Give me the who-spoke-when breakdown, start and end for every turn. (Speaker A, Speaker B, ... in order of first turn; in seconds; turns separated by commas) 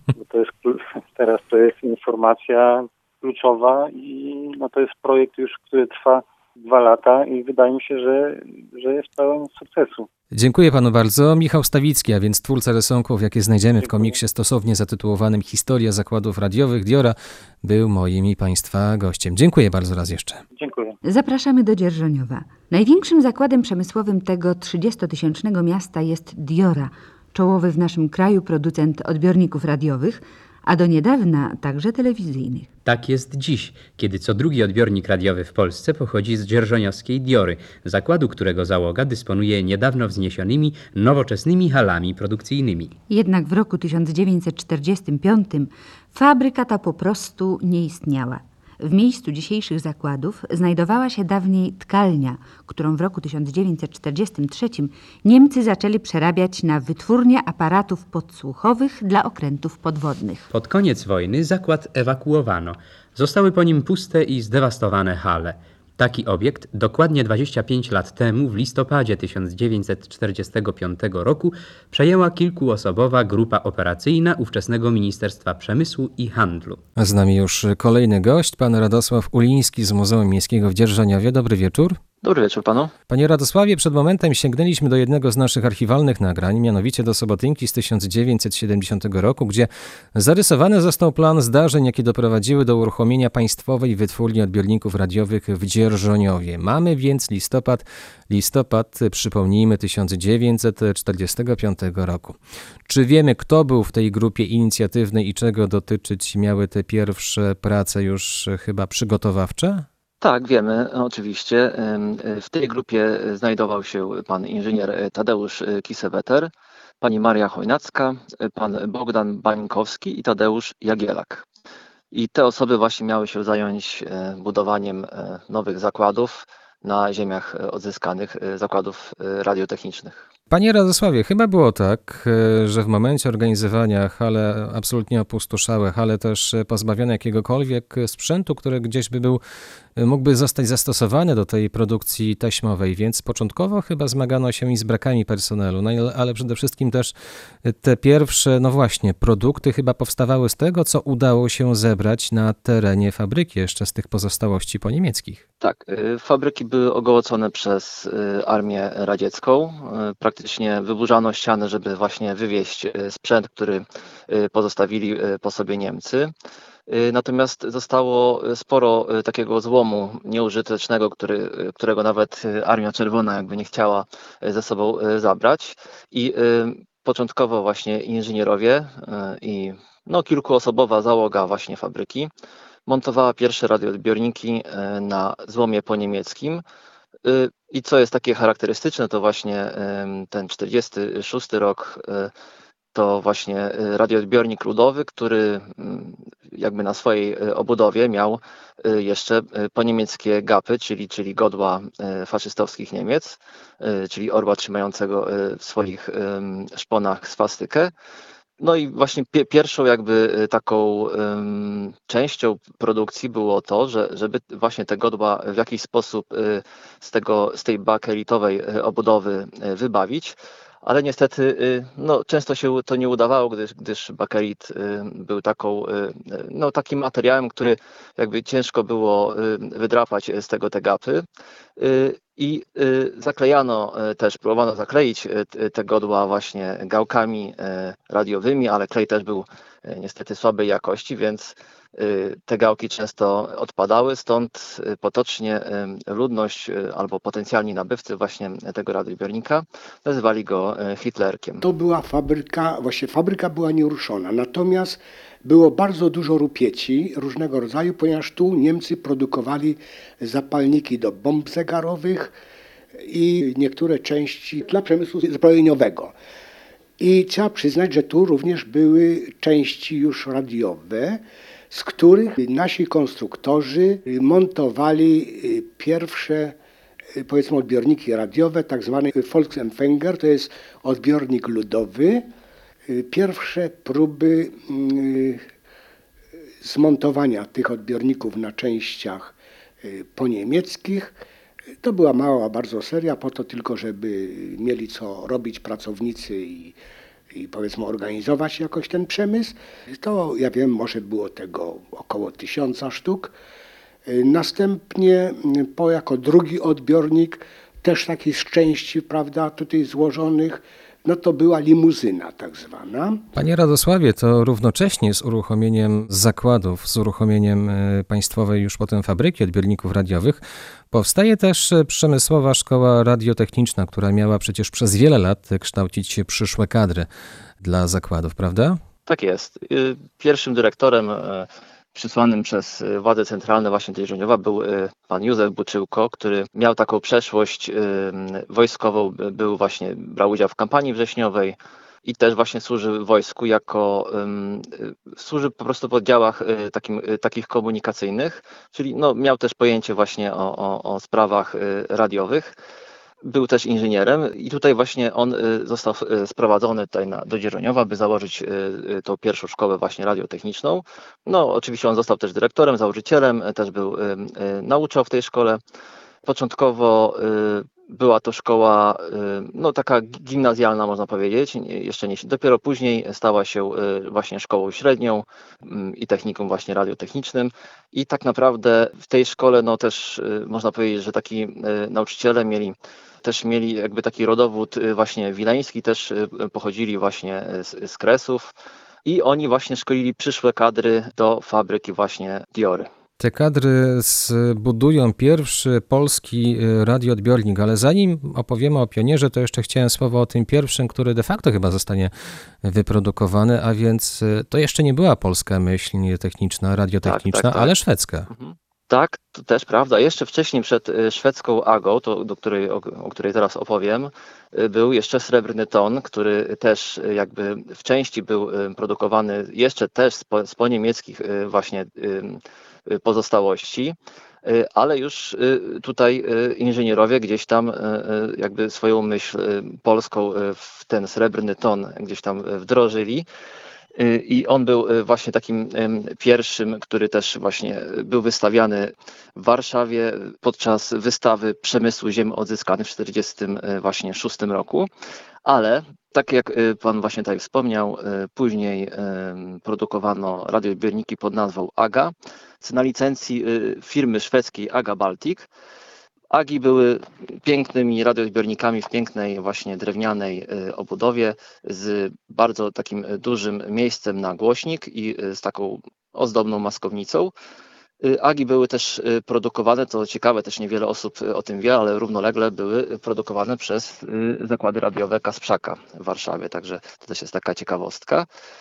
Speaker A: 0.1-10.1, Speaker B: 10.3-20.4, Speaker A: 13.8-14.2, Speaker A: 20.6-21.0, Speaker C: 21.0-32.7, Speaker D: 32.9-43.0, Speaker C: 43.1-60.5, Speaker D: 60.5-76.8, Speaker B: 77.0-82.0, Speaker E: 82.2-82.9, Speaker B: 83.1-109.9, Speaker E: 110.2-121.5, Speaker E: 122.1-130.3, Speaker B: 130.5-139.4, Speaker B: 140.0-155.4, Speaker E: 155.6-166.3, Speaker E: 166.9-182.3, Speaker E: 182.9-186.6, Speaker E: 187.2-192.3, Speaker E: 192.9-207.9, Speaker E: 208.6-231.2, Speaker E: 231.8-251.6, Speaker F: 251.6-262.4, Speaker F: 263.0-266.1, Speaker F: 267.0-276.6, Speaker F: 277.1-282.3, Speaker F: 282.9-285.5, Speaker F: 286.6-291.2, Speaker F: 291.8-296.8, Speaker F: 297.3-303.3, Speaker F: 304.1-313.2, Speaker B: 313.4-327.1, Speaker B: 327.6-328.8, Speaker E: 329.1-352.6, Speaker E: 353.2-365.6, Speaker E: 366.2-388.5, Speaker E: 389.1-392.9, Speaker B: 393.2-408.3, Speaker E: 407.1-407.7, Speaker E: 408.3-433.3, Speaker E: 434.0-444.9, Speaker E: 445.4-455.5, Speaker E: 456.3-467.3, Speaker E: 468.0-478.3